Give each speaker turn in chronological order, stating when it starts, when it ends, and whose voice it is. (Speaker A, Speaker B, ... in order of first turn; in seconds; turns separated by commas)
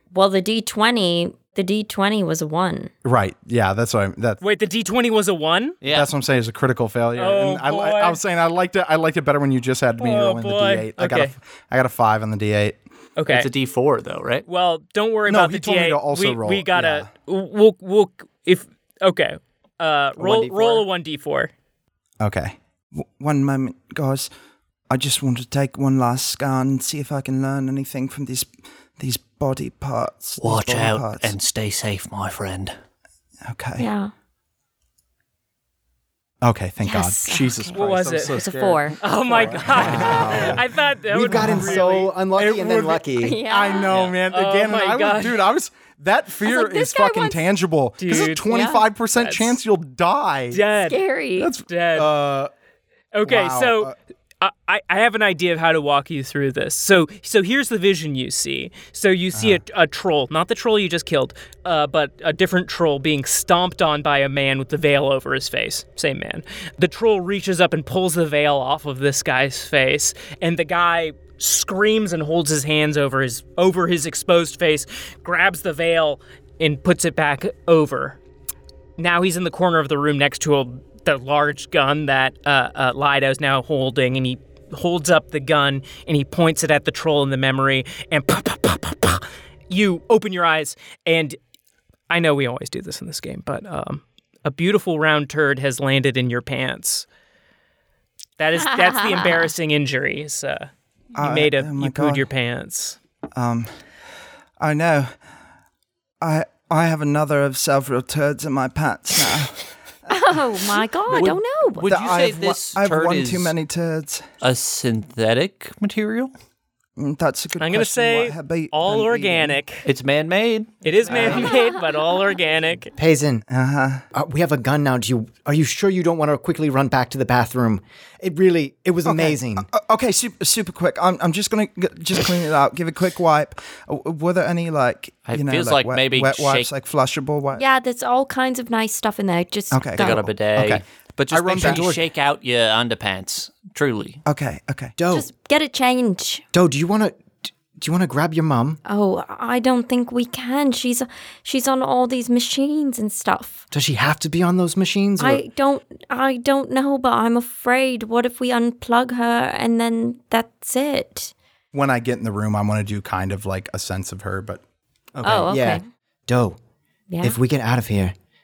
Speaker A: 0.1-2.9, Speaker B: 3.0-4.4, Speaker C: 4.4-5.8, Speaker D: 5.8-6.1, Speaker B: 5.9-12.8, Speaker C: 7.2-8.2, Speaker C: 10.0-11.3, Speaker C: 13.2-13.5, Speaker D: 13.3-14.4, Speaker C: 14.5-21.5, Speaker B: 15.3-17.1, Speaker E: 20.2-20.9, Speaker B: 22.2-24.3, Speaker B: 24.9-31.3, Speaker D: 30.4-32.7, Speaker B: 33.5-33.9, Speaker A: 33.8-34.1, Speaker B: 36.4-40.6, Speaker A: 36.8-37.8, Speaker C: 37.7-38.4, Speaker A: 38.3-39.0, Speaker C: 39.0-42.1, Speaker E: 41.1-43.4, Speaker B: 41.3-41.8, Speaker B: 42.4-50.6, Speaker A: 43.2-44.1, Speaker D: 43.9-44.1, Speaker C: 44.3-45.4, Speaker A: 46.4-47.4, Speaker C: 48.0-48.5, Speaker A: 48.4-48.8, Speaker C: 49.1-49.5, Speaker C: 50.5-51.0, Speaker A: 50.8-51.5, Speaker B: 51.4-52.5, Speaker C: 51.7-52.1, Speaker C: 53.1-78.2, Speaker B: 53.2-53.9, Speaker B: 59.3-59.6, Speaker C: 79.0-91.4, Speaker C: 92.1-97.0, Speaker C: 98.4-103.0, Speaker B: 101.2-102.2, Speaker B: 103.3-103.7, Speaker B: 104.6-105.1, Speaker B: 106.2-109.7, Speaker A: 110.1-111.9, Speaker D: 111.1-113.5, Speaker B: 111.9-114.2, Speaker D: 114.4-116.3, Speaker B: 117.0-119.6, Speaker C: 117.6-119.8, Speaker D: 119.8-120.7, Speaker C: 120.8-122.9, Speaker B: 121.1-121.5, Speaker E: 123.0-123.4, Speaker B: 123.5-124.0, Speaker E: 124.1-129.7, Speaker B: 129.1-137.6, Speaker D: 135.3-136.7, Speaker A: 137.6-140.2, Speaker B: 139.7-142.0, Speaker D: 140.0-144.2, Speaker B: 144.2-144.9, Speaker E: 145.0-145.3, Speaker A: 145.1-146.4, Speaker E: 146.5-148.8, Speaker A: 148.8-153.6, Speaker E: 153.7-155.4, Speaker A: 155.2-161.3, Speaker B: 161.7-164.6, Speaker E: 165.1-166.6, Speaker A: 165.2-165.8, Speaker A: 167.1-167.4, Speaker E: 167.2-168.1